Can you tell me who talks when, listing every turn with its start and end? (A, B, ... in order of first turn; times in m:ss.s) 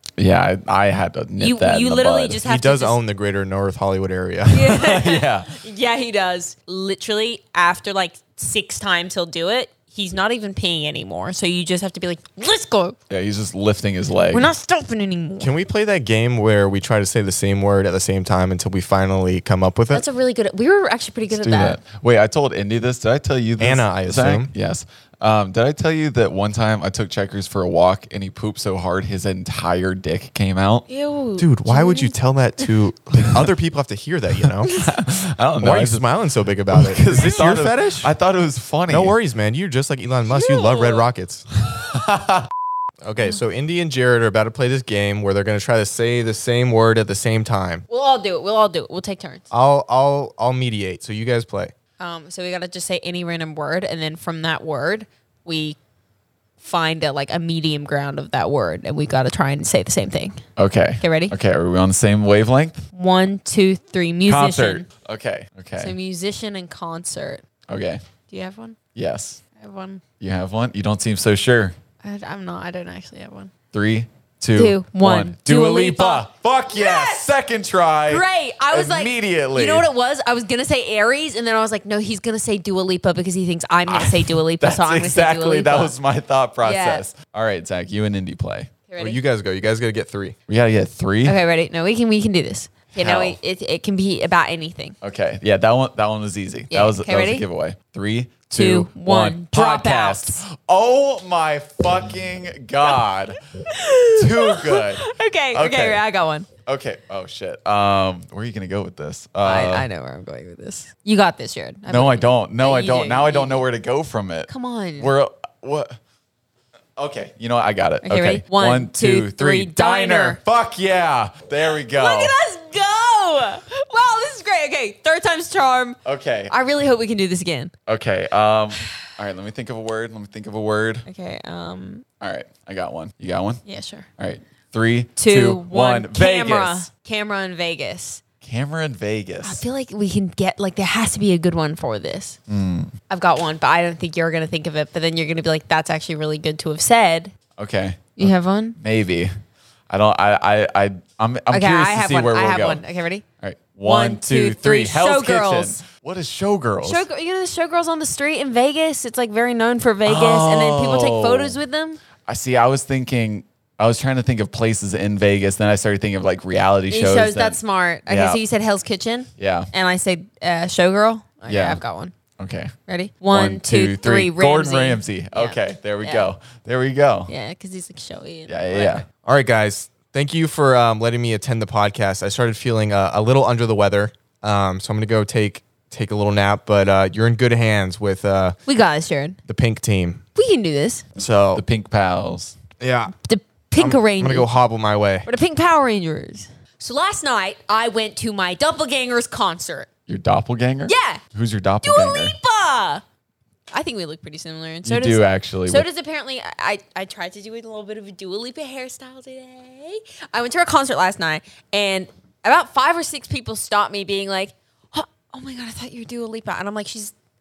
0:00.2-0:02.4 A
0:01.4-0:03.0 B
0:02.4-0:04.8 C
0:04.5-0:13.0 B
0:04.6-0:05.6 A
0:13.1-0:14.5 A
0:14.3-0:15.5 B
0:15.4-0:20.0 C
0:19.9-0:21.8 B
0:21.3-0:30.8 A
0:23.6-0:24.5 C
0:30.9-0:32.2 B
0:31.4-0:34.8 C
0:34.6-0:36.0 A
0:35.6-0:38.1 C
0:36.7-0:39.2 A
0:38.9-0:41.5 C
0:40.3-0:41.1 B
0:41.7-0:42.5 A
0:43.0-0:47.8 C
0:47.9-0:49.4 B
0:49.5-0:51.7 C
0:52.0-0:55.8 B
0:56.6-1:00.4 B
1:00.6-1:02.9 A
1:01.0-1:01.3 B
1:02.9-1:04.8 B
1:04.3-1:05.9 A
1:05.8-1:07.4 B
1:07.7-1:08.0 A
1:08.3-1:08.8 B
1:09.0-1:09.4 A
1:09.6-1:10.0 B
1:10.2-1:11.8 A
1:12.0-1:13.5 B
1:13.7-1:19.9 A
1:14.6-1:17.4 B
1:18.1-1:25.9 B
1:23.9-1:28.7 A
1:26.6-1:27.0 B
1:28.9-1:29.2 B
1:29.0-1:30.4 C
1:30.5-1:31.4 A
1:31.2-1:35.0 B
1:33.0-1:33.4 A
1:35.0-1:43.4 A
1:36.7-1:37.4 B
1:38.6-1:40.4 B
1:43.7-1:46.5 B
1:44.1-1:46.0 A
1:46.7-1:49.9 A
1:49.4-1:53.6 B
1:51.9-1:56.0 A
1:54.5-1:55.1 B
1:57.0-2:02.3 A
1:58.0-2:00.4 B
2:01.9-2:07.7 B
2:06.0-2:06.5 A
2:07.9-2:11.1 A
2:11.1-2:12.0 B
2:12.2-2:13.6 A
2:13.6-2:14.1 B
2:14.2-2:16.9 A
2:15.2-2:18.2 B
2:18.4-2:19.6 A
2:19.4-2:22.4 B
2:22.5-2:22.9 A
2:23.1-2:27.3 B
2:27.6-2:29.3 A
2:28.2-2:28.8 B
2:29.9-2:32.8 A
2:31.5-2:33.2 B
2:33.4-2:37.1 A
2:33.8-2:35.8 B
2:36.8-2:42.0 B
2:40.1-2:41.6 A
2:42.3-2:48.4 A
2:46.9-2:52.1 B
2:49.4-2:49.7 A
2:51.5-2:51.8 A
2:52.4-2:52.7 A
2:52.9-2:56.3 B
2:53.3-2:57.3 A
2:57.3-2:59.0 B
2:58.5-2:59.0 A
2:59.2-3:08.6 C
3:08.7-3:09.4 B
3:09.5-3:10.2 C
3:10.4-3:11.1 B
3:11.2-3:11.6 C
3:11.6-3:12.6 A
3:12.8-3:13.2 C
3:13.2-3:14.5 B
3:13.8-3:15.3 C
3:15.3-3:19.9 B
3:20.1-3:22.4 A
3:20.9-3:21.2 B
3:21.8-3:23.0 B
3:23.7-3:37.1 B
3:24.8-3:25.9 A